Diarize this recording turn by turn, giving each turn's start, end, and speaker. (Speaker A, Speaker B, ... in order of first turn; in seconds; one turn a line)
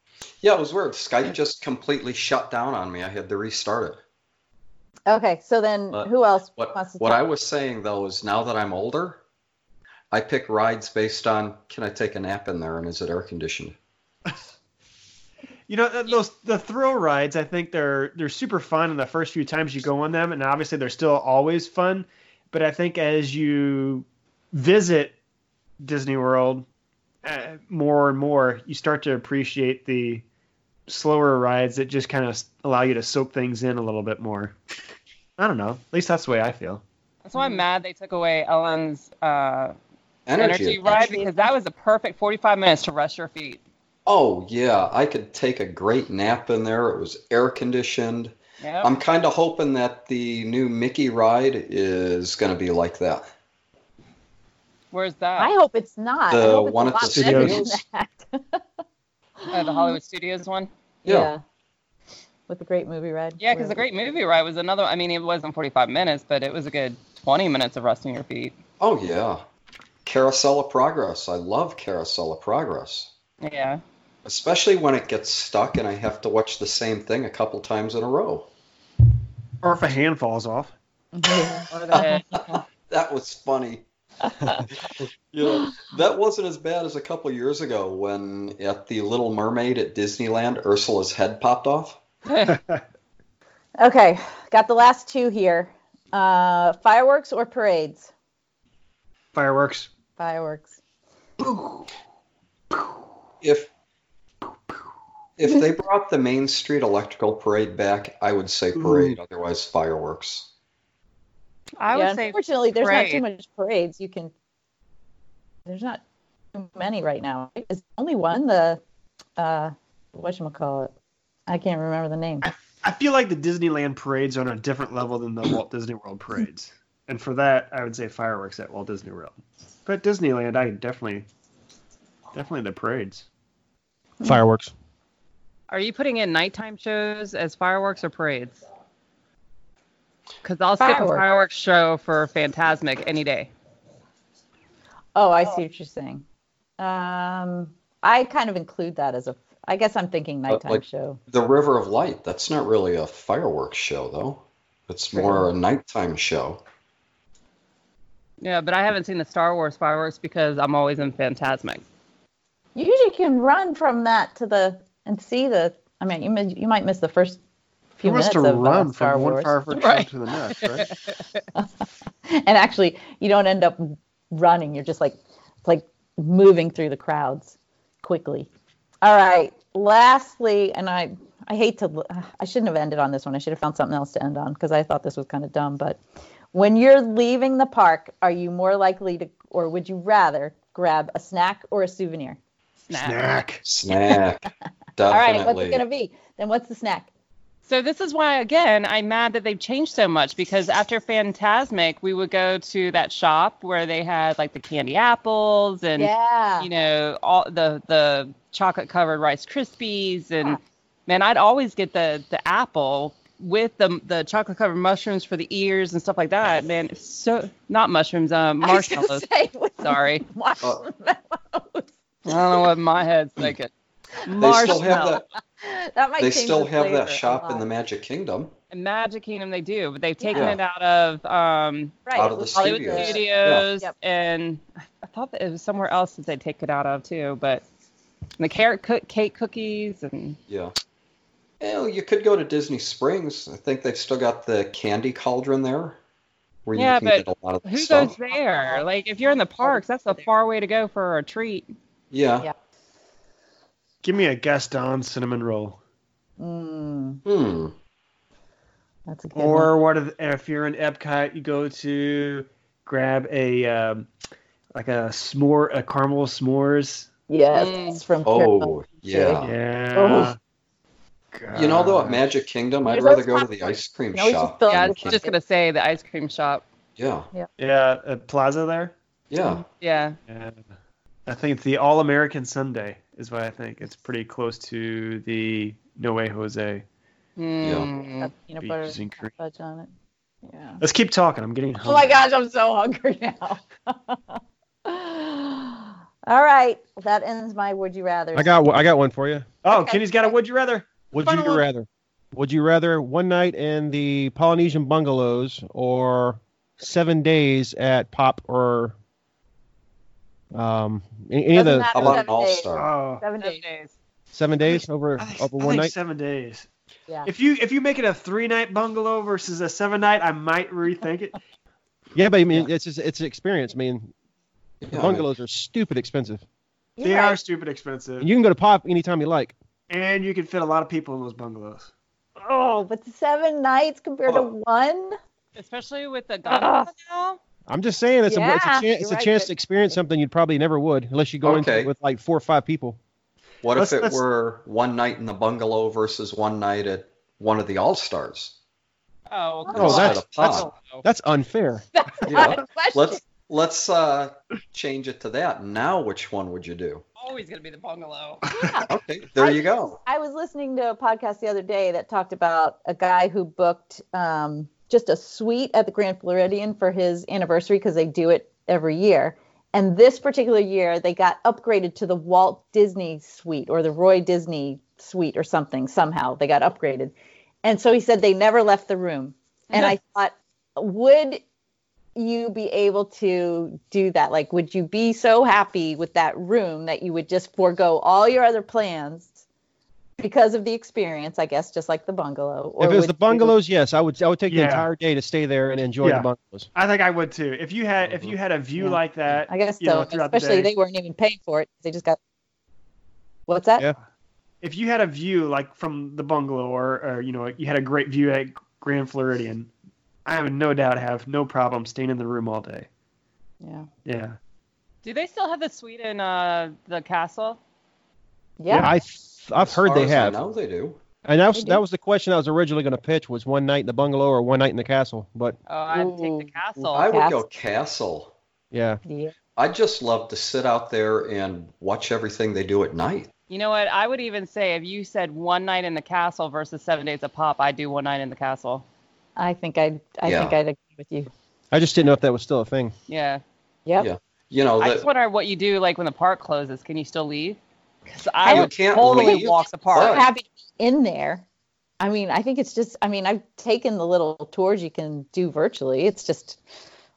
Speaker A: 0.4-4.0
Speaker B: 5.1-7.2
Speaker A: 5.9-9.2
Speaker A: 10.1-13.8
Speaker C: 15.7-25.1
Speaker C: 25.8-26.6
Speaker C: 27.2-30.2
Speaker C: 30.9-34.5
Speaker C: 35.4-36.8
Speaker D: 37.2-39.7
Speaker B: 37.4-37.6
Speaker A: 40.3-41.1
Speaker D: 40.4-43.6
Speaker B: 40.8-41.5
Speaker A: 44.0-53.3
Speaker D: 48.6-48.9
Speaker D: 54.9-55.5
Speaker B: 55.4-58.6
Speaker A: 56.3-57.8
Speaker C: 57.0-57.6
Speaker B: 59.4-60.0
Speaker D: 59.5-60.7
Speaker B: 61.0-61.4
Speaker A: 61.0-61.3
Speaker B: 62.5-63.8
Speaker D: 63.4-68.5
Speaker A: 68.8-69.4
Speaker A: 70.0-73.1
Speaker D: 73.4-73.8
Speaker A: 74.2-78.5
Speaker C: 79.6-80.7
Speaker B: 81.1-82.6
Speaker D: 81.7-82.2
Speaker A: 82.0-83.8
Speaker A: 85.0-92.0
Speaker D: 92.2-92.6
Speaker C: 92.4-92.8
Speaker B: 93.8-98.1
Speaker C: 99.3-99.9
Speaker B: 100.2-100.8
Speaker C: 101.4-101.8
Speaker A: 103.4-103.7
Speaker A: 105.4-110.5
Speaker C: 108.8-109.2
Speaker D: 111.8-113.2
Speaker B: 111.9-114.3
Speaker B: 115.7-116.0
Speaker B: 116.5-118.8
Speaker B: 119.4-120.9
Speaker B: 121.5-122.5
Speaker C: 122.4-131.2
Speaker C: 132.3-133.2
Speaker E: 134.2-134.7
Speaker D: 135.7-138.6
Speaker D: 140.4-143.5
Speaker B: 140.8-141.2
Speaker B: 145.1-146.2
Speaker B: 146.8-151.2
Speaker A: 150.5-156.6
Speaker B: 155.1-155.5
Speaker D: 158.4-161.8
Speaker B: 162.8-167.4
Speaker B: 168.0-169.6
Speaker C: 168.0-170.9
Speaker D: 169.7-170.1
Speaker D: 170.6-171.0
Speaker B: 171.5-178.5
Speaker B: 179.0-186.0
Speaker B: 186.5-192.4
Speaker D: 192.9-193.3
Speaker C: 192.9-193.6
Speaker A: 193.6-195.8
Speaker B: 195.1-197.1
Speaker D: 197.7-219.3
Speaker B: 206.0-206.7
Speaker B: 218.6-221.9
Speaker D: 219.8-220.2
Speaker D: 222.2-223.7
Speaker D: 224.2-225.2
Speaker A: 224.4-225.2
Speaker B: 224.4-227.7
Speaker A: 226.2-228.5
Speaker D: 228.7-237.6
Speaker B: 230.2-230.5
Speaker B: 232.1-233.9
Speaker A: 232.1-233.6
Speaker D: 238.4-240.4
Speaker A: 241.6-246.0
Speaker A: 246.7-248.1
Speaker D: 246.7-251.7
Speaker B: 248.3-250.2
Speaker A: 252.1-252.5
Speaker C: 254.0-255.8
Speaker B: 256.4-257.2
Speaker A: 257.2-257.7
Speaker B: 259.1-259.7
Speaker C: 259.3-264.1
Speaker C: 264.7-267.1
Speaker B: 267.3-269.4
Speaker D: 267.5-268.0
Speaker A: 268.2-269.5
Speaker C: 269.4-270.4
Speaker B: 269.9-270.3
Speaker C: 271.3-272.2
Speaker A: 271.5-275.2
Speaker B: 272.9-275.4
Speaker D: 274.7-276.6
Speaker A: 277.0-277.3
Speaker C: 277.6-278.9
Speaker A: 279.3-279.6
Speaker D: 279.8-280.2
Speaker C: 280.3-280.6
Speaker C: 281.3-286.8
Speaker D: 287.4-288.3
Speaker A: 287.6-287.9
Speaker B: 288.2-289.9
Speaker C: 288.6-289.3
Speaker B: 290.4-290.8
Speaker C: 290.8-292.2
Speaker B: 291.8-298.6
Speaker E: 298.3-299.5
Speaker C: 299.6-301.6
Speaker B: 299.7-300.3
Speaker E: 301.1-308.9
Speaker E: 310.5-312.1
Speaker B: 311.5-313.6
Speaker A: 311.9-312.9
Speaker C: 312.7-313.2
Speaker D: 313.4-313.9
Speaker E: 314.3-315.9
Speaker C: 314.7-316.7
Speaker C: 317.2-321.4
Speaker E: 322.1-324.1
Speaker A: 324.8-325.2
Speaker E: 324.9-326.4
Speaker B: 327.0-327.4
Speaker C: 327.0-328.3
Speaker E: 328.2-329.5
Speaker C: 329.9-331.9
Speaker B: 332.4-335.2
Speaker D: 335.5-337.4
Speaker B: 336.4-336.9
Speaker E: 337.7-343.0
Speaker B: 338.3-339.5
Speaker A: 341.4-341.9
Speaker A: 343.6-348.5
Speaker C: 343.7-344.2
Speaker D: 349.3-351.0
Speaker A: 349.7-350.7
Speaker E: 349.8-350.1
Speaker B: 349.8-350.1
Speaker E: 351.0-351.8
Speaker B: 351.9-353.2
Speaker A: 352.3-357.0
Speaker D: 357.2-358.4
Speaker B: 358.5-377.1
Speaker A: 358.9-360.0
Speaker B: 377.6-381.4
Speaker B: 382.1-389.3
Speaker B: 390.2-393.6
Speaker E: 392.8-396.7
Speaker C: 394.5-394.9
Speaker C: 396.0-400.7
Speaker B: 398.8-402.2
Speaker B: 403.5-403.9
Speaker C: 404.6-409.7
Speaker C: 410.2-412.9
Speaker B: 413.6-413.9
Speaker C: 414.0-414.4
Speaker D: 415.0-417.6
Speaker B: 418.6-418.9
Speaker C: 418.7-418.9
Speaker E: 418.8-420.4
Speaker A: 419.6-421.0
Speaker E: 421.2-425.6
Speaker B: 421.5-421.8
Speaker D: 425.7-427.1
Speaker B: 425.9-427.4
Speaker A: 426.9-428.3
Speaker E: 428.7-429.0
Speaker B: 429.0-429.3
Speaker A: 429.6-433.3
Speaker D: 433.5-438.8
Speaker B: 439.4-441.3
Speaker A: 440.2-440.6
Speaker E: 441.7-442.9
Speaker D: 443.1-443.4
Speaker A: 444.0-445.1
Speaker D: 444.8-450.2
Speaker B: 448.4-451.4
Speaker A: 448.5-450.2
Speaker B: 452.0-456.6